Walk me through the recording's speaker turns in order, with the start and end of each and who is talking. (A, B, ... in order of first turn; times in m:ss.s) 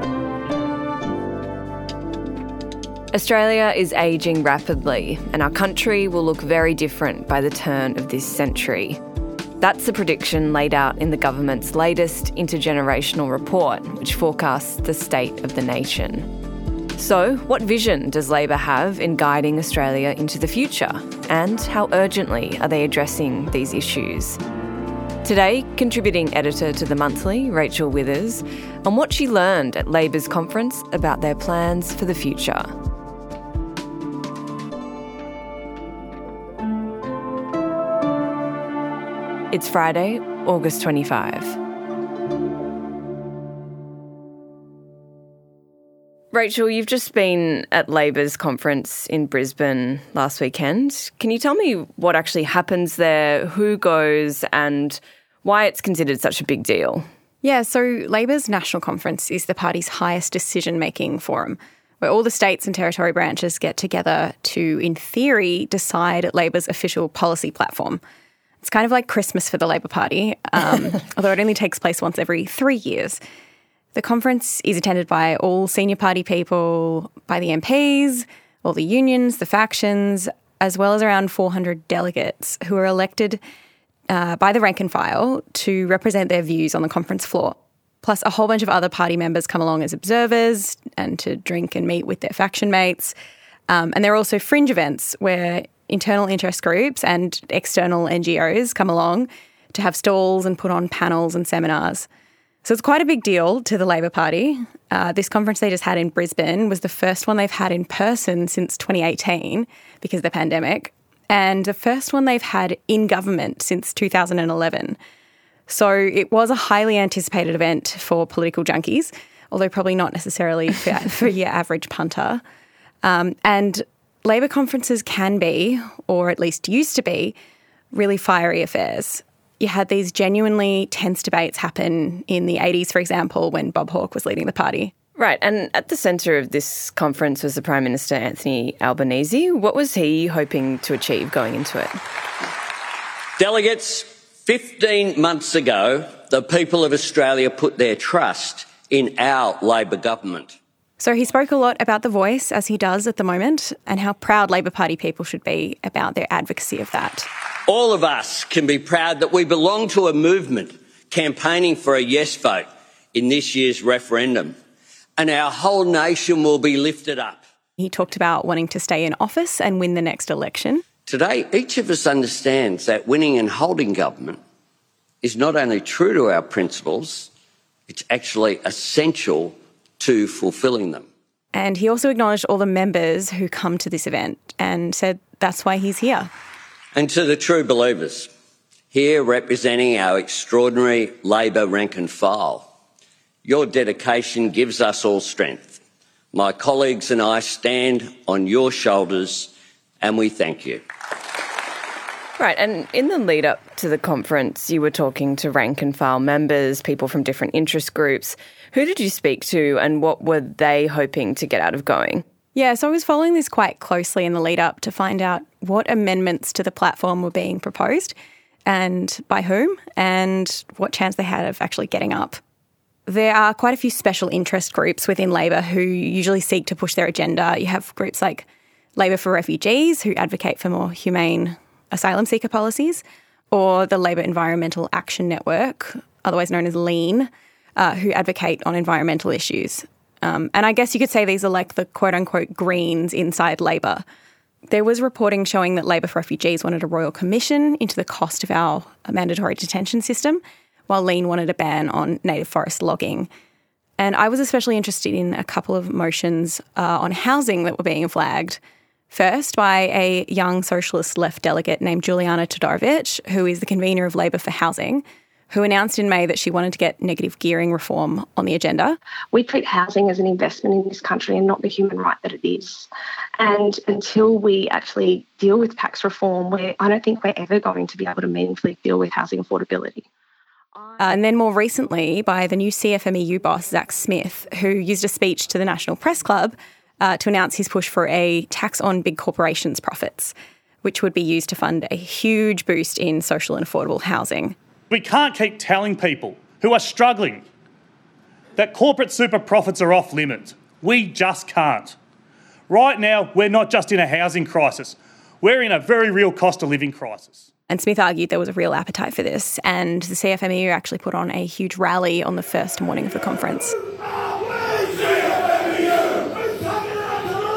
0:03.1-0:09.0 A
0:09.6-0:16.3 A
0:16.9-0:24.4 A
0:25.2-0:32.7 A
0:39.5-0:41.6 A
0:46.3-0:57.0 A
0:57.4-1:08.0 B
1:08.6-1:13.2 B
1:13.9-1:23.4 B
1:24.1-1:33.1 B
1:33.7-1:42.1 B
1:42.6-1:55.0 B
1:55.7-2:02.4 B
2:03.0-2:07.3 B
2:07.9-2:14.9 B
2:15.2-2:22.0 A
2:23.4-2:30.6 C
2:31.0-2:37.3 B
2:37.6-2:44.5 C
2:45.2-2:47.4 C
2:47.8-2:50.8 B
2:51.0-2:54.4 C
2:55.2-2:57.3 C
2:57.9-3:01.1 C
3:01.5-3:06.3 B
3:06.9-3:08.3 C
3:08.9-3:12.7 C
3:13.4-3:15.8 C
3:16.3-3:20.8 C
3:22.4-3:32.2 A
3:32.5-3:38.1 B
3:38.6-3:42.4 B
3:43.1-4:04.0 B
4:04.7-4:13.3 B
4:14.0-4:18.6 B
4:19.1-4:29.0 B
4:29.3-4:40.0 D
4:41.0-4:54.6 B
4:54.9-4:57.4 E
4:58.6-5:01.9 E
5:02.7-5:07.4 E
5:07.7-5:13.7 B